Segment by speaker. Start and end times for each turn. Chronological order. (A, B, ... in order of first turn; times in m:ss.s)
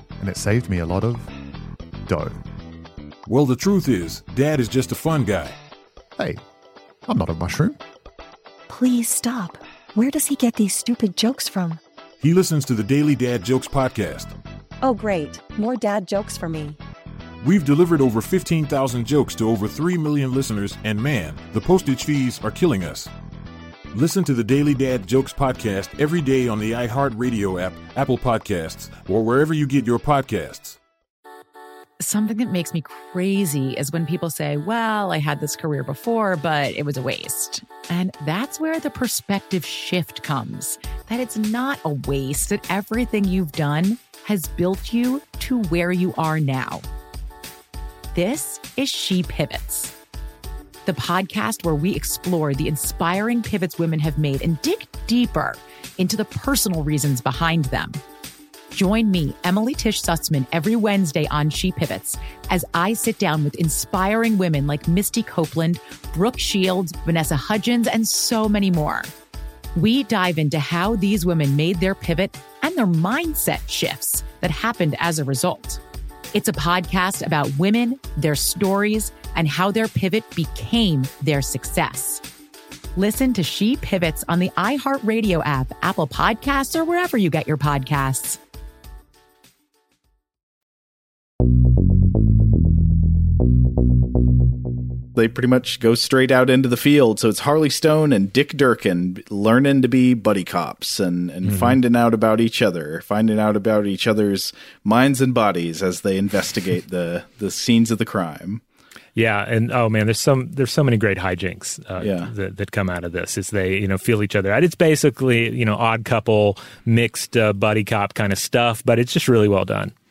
0:00.2-0:01.3 A
0:02.1-0:02.4 A
0:03.3-0:05.6 B
0:07.1-0:07.8 A
0:08.7-0:11.8 C
0:12.2-0:14.3 B
0:14.8-0:16.8 D
0:17.4-0:23.1 B
0:23.9-0:30.8 B
0:32.0-0:46.8 E
0:48.1-0:49.9 E
0:50.9-0:58.0 E
0:58.7-1:09.1 E
1:09.7-1:15.8 E
1:16.3-1:22.2 E
1:23.0-1:28.4 E
1:35.1-1:48.6 F
1:41.4-1:41.8 G
1:49.2-1:59.9 G
1:52.0-1:52.3 F